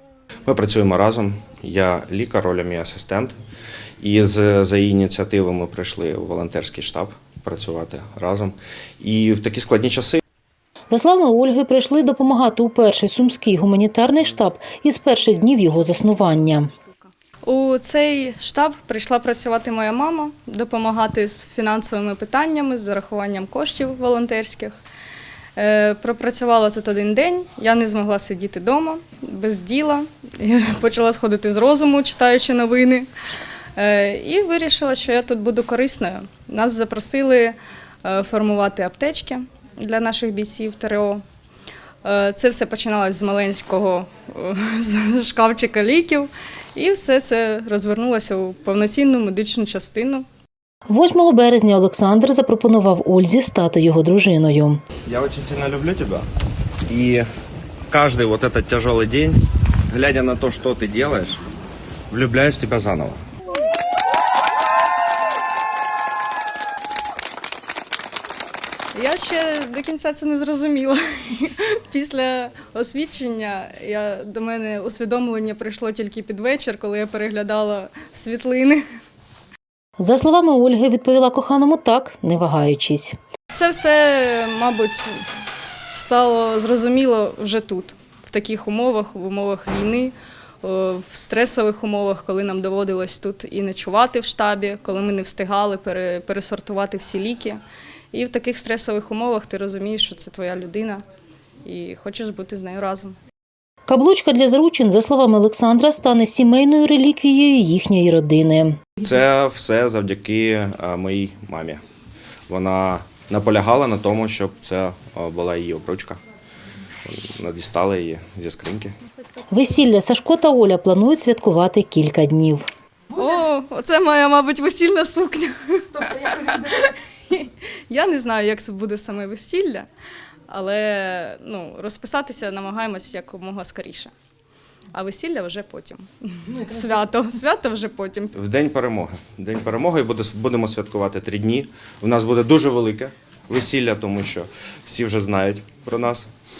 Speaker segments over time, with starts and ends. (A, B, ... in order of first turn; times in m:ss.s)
0:00.4-0:03.3 A
0:04.0-0:10.2 A
0:10.9-0:16.7 B
0:17.4-0:24.7 C
0:25.6-0:33.1 C
0:33.8-0:41.2 C
0:42.0-0:50.2 C
0:50.9-0:54.8 B
0:55.0-0:56.2 A
0:56.9-0:57.2 A
0:57.9-0:59.4 A
0:59.9-1:01.4 A
1:02.1-1:03.2 A
1:08.9-1:18.8 C
1:20.0-1:23.1 B
1:23.5-1:37.6 C
1:38.1-1:41.0 C
1:41.6-1:43.2 C
1:43.9-1:48.8 B
1:49.0-1:51.8 A
1:52.5-1:56.2 A
1:57.0-1:58.9 A
1:59.5-2:02.6 B
2:03.1-2:09.9 C
2:10.5-2:14.1 C
2:14.9-2:18.3 C
2:18.3-2:26.3 A